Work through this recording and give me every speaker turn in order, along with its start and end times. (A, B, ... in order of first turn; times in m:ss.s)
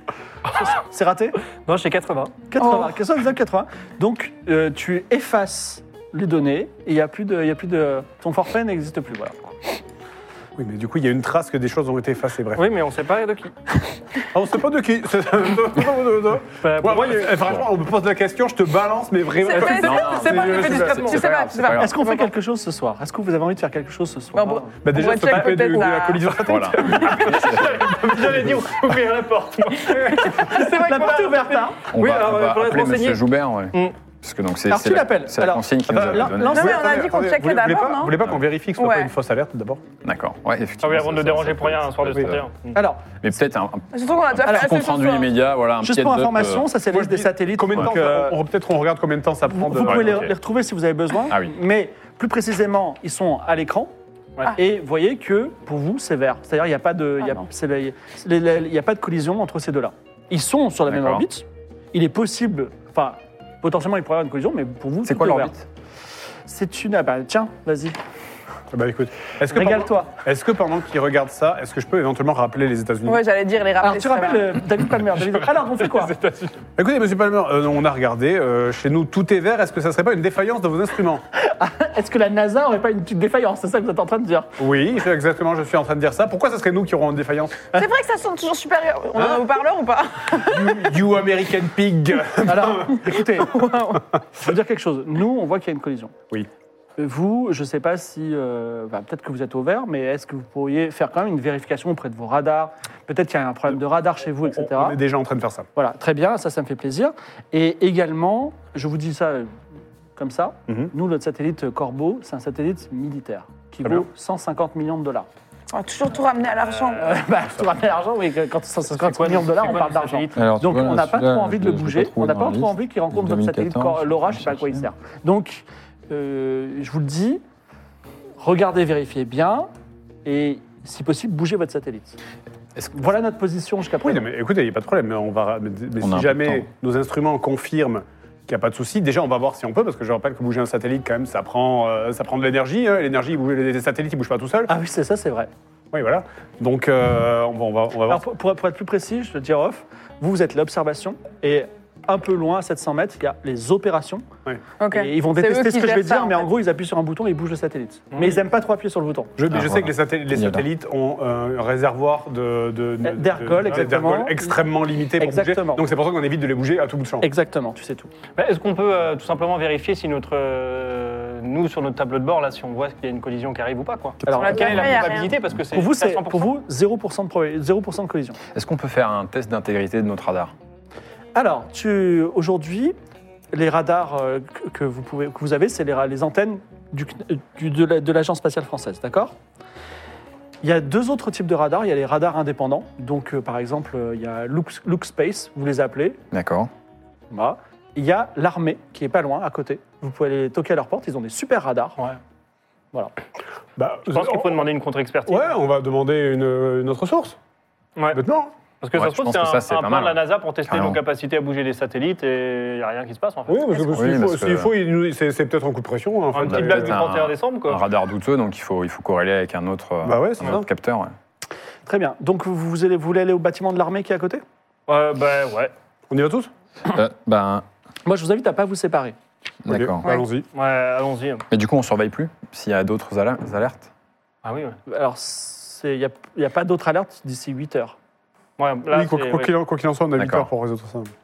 0:00.6-0:01.4 A
0:01.7-0:02.4 B
0:02.5-0:09.4 A
0:02.6-0:03.0 C
0:10.6-0:12.6 D
0:12.6-0:13.6 B
0:14.3-0:21.1 D
0:16.6-0:17.6 B
0:19.4-0:22.3 C
0:19.6-0:22.0 E
0:19.6-0:21.4 B
0:21.7-0:24.7 A
0:24.3-0:26.3 C
0:24.8-0:28.6 D
0:26.4-0:27.9 E
0:27.0-0:33.2 B
0:30.4-0:31.8 A
0:31.9-0:36.8 E
0:34.7-0:36.9 A
0:35.9-0:39.8 D
0:36.5-0:38.2 C
0:38.8-0:39.1 C
0:40.0-0:42.4 E
0:40.8-0:42.8 B
0:42.7-0:43.0 A
0:43.2-0:46.7 E
0:43.9-0:45.3 C
0:44.5-0:44.8 A
0:45.8-0:48.4 A
0:46.9-0:50.3 D
0:49.5-0:53.9 A
0:49.8-0:50.3 E
0:51.3-0:51.5 E
0:54.5-1:05.5 A
1:00.9-1:01.3 E
1:05.0-1:05.7 E
1:06.5-1:08.0 A
1:08.7-1:13.2 D
1:09.5-1:10.2 A
1:13.0-1:14.6 C
1:13.8-1:16.2 A
1:16.0-1:16.5 B
1:16.8-1:21.2 D
1:21.3-1:24.5 A
1:24.6-1:27.6 D
1:27.7-1:30.9 C
1:29.2-1:29.5 D
1:30.3-1:33.1 D
1:32.4-1:33.5 A
1:33.1-1:34.0 C
1:34.4-1:36.1 A
1:37.0-1:45.0 A
1:44.5-1:45.7 D
1:45.8-1:49.5 A
1:50.2-1:55.3 A
1:55.7-1:57.2 C
1:56.6-1:57.0 B
1:57.0-2:07.4 A
1:58.9-2:00.4 B
2:00.4-2:04.8 E
2:08.4-2:09.7 A
2:10.2-2:12.2 A
2:12.8-2:13.1 E
2:13.0-2:14.3 A
2:14.0-2:24.7 D
2:16.0-2:16.7 E
2:24.7-2:25.5 A
2:25.9-2:28.2 D
2:28.1-2:34.3 A
2:34.8-2:36.5 C
2:34.9-2:39.3 A
2:39.4-2:47.3 D
2:39.5-2:40.7 E
2:43.0-2:44.6 A
2:45.2-2:45.8 A
2:47.2-2:48.1 A
2:48.4-2:56.5 B
2:54.3-2:55.1 A
2:54.4-2:55.3 C
2:55.7-2:58.4 A
2:58.5-3:00.5 E
3:01.4-3:03.0 A
3:03.5-3:09.4 A
3:10.6-3:16.2 A
3:16.3-3:16.7 E
3:17.3-3:22.0 A
3:23.8-3:24.6 D
3:24.1-3:25.5 B
3:25.3-3:27.4 D
3:28.0-3:28.2 B
3:28.1-3:28.5 D
3:28.8-3:34.0 B
3:28.9-3:31.0 E
3:33.5-3:37.0 D
3:33.9-3:34.7 E
3:36.3-3:37.8 B
3:36.5-3:41.1 E
3:40.0-3:40.7 D
3:41.9-3:44.4 A
3:44.9-3:45.7 B
3:46.1-3:46.5 D
3:46.9-3:47.7 E
3:48.1-3:49.2 A
3:49.6-3:50.0 E
3:49.7-3:50.5 D
3:50.5-3:51.4 B
3:51.5-3:53.9 E
3:54.4-3:54.8 B
3:54.9-3:58.0 A
3:58.6-3:59.5 B
3:58.9-4:01.1 D
4:00.2-4:00.5 E